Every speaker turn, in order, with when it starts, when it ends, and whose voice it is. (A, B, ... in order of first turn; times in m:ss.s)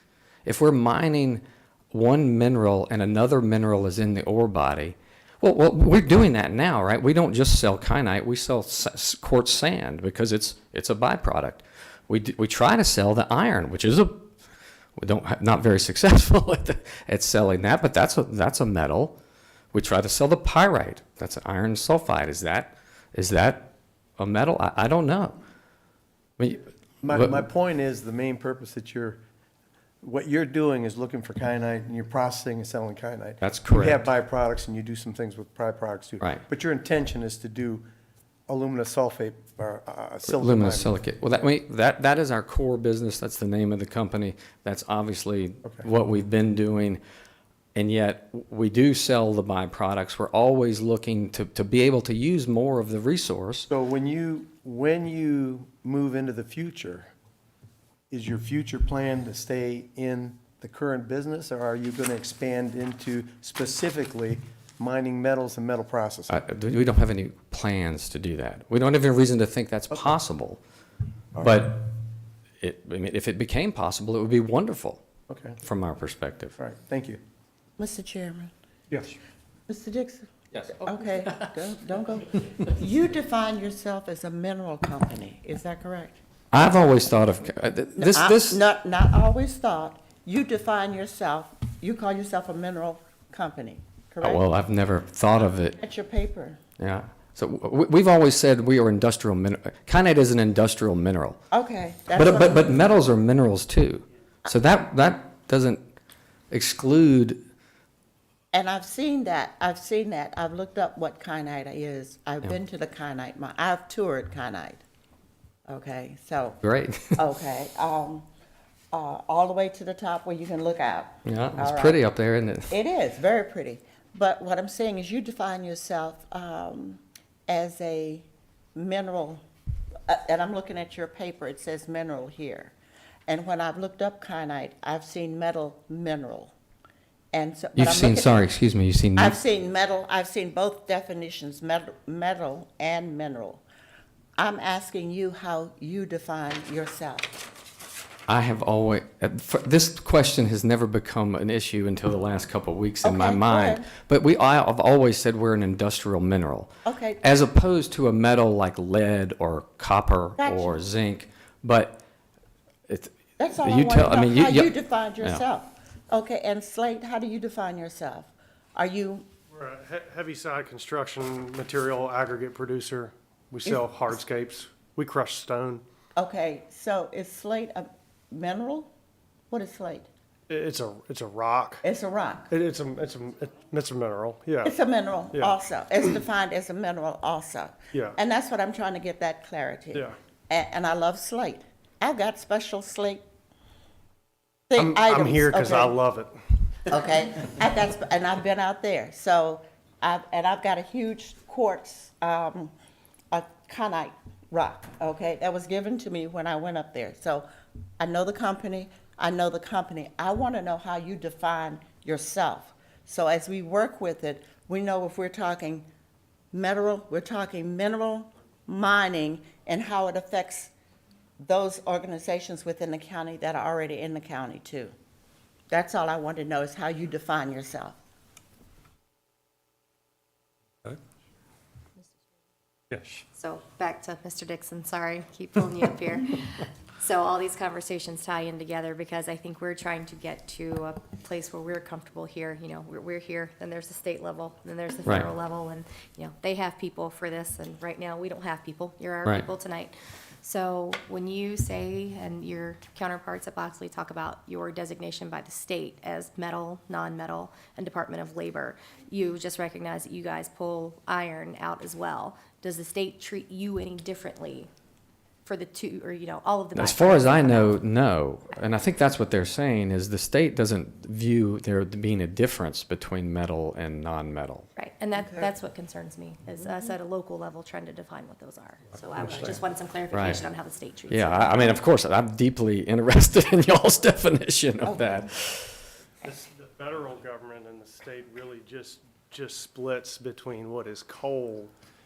0:00.4-0:14.3 A
0:15.0-0:19.2 A
0:19.7-0:25.4 A
0:26.4-0:27.4 A
0:27.0-0:29.2 B
0:30.0-0:37.8 B
0:33.4-0:34.1 A
0:38.5-0:41.0 B
0:40.3-0:47.0 A
0:47.7-0:53.7 A
0:53.7-0:57.1 B
0:58.1-1:06.3 B
1:06.3-1:10.6 A
1:11.4-1:12.0 A
1:12.6-1:15.0 A
1:15.3-1:15.6 B
1:15.6-1:16.5 A
1:16.6-1:17.2 B
1:17.8-1:18.5 C
1:19.7-1:26.2 C
1:26.5-1:28.6 A
1:28.0-1:34.4 C
1:34.2-1:35.8 A
1:35.8-1:36.6 C
1:36.8-1:41.4 A
1:41.5-1:42.8 C
1:42.1-1:45.9 A
1:46.5-1:47.4 A
1:48.5-1:54.8 C
1:55.7-1:56.6 C
1:56.6-1:57.2 A
1:57.1-1:58.3 C
1:58.9-2:02.0 C
2:01.2-2:02.7 A
2:02.7-2:09.4 C
2:10.1-2:12.7 C
2:13.3-2:16.5 C
2:17.3-2:18.4 C
2:17.8-2:19.4 A
2:19.2-2:23.6 C
2:24.4-2:27.4 C
2:28.3-2:36.7 A
2:33.0-2:33.9 C
2:36.8-2:37.2 C
2:37.2-2:42.0 A
2:40.4-2:40.8 C
2:42.9-2:45.4 A
2:43.4-2:49.2 C
2:49.5-2:55.8 D
2:56.2-2:58.9 C
2:59.5-3:00.1 C
3:00.5-3:01.8 D
3:01.8-3:02.5 C
3:02.5-3:04.8 D
3:04.6-3:13.2 C
3:05.3-3:05.6 D
3:14.7-3:15.9 C
3:14.8-3:16.3 D
3:16.9-3:22.7 C
3:23.3-3:27.5 C
3:28.0-3:35.8 C
3:36.5-3:40.7 C
3:41.4-3:44.9 C
3:45.7-3:48.0 C
3:52.9-3:53.2 D
3:53.3-4:24.7 E
4:25.4-4:27.8 E
4:26.7-4:34.7 A
4:34.8-4:41.8 E
4:35.2-4:35.5 C
4:40.1-4:40.4 A
4:41.1-4:45.8 A
4:44.8-4:45.2 C
4:46.2-4:51.7 D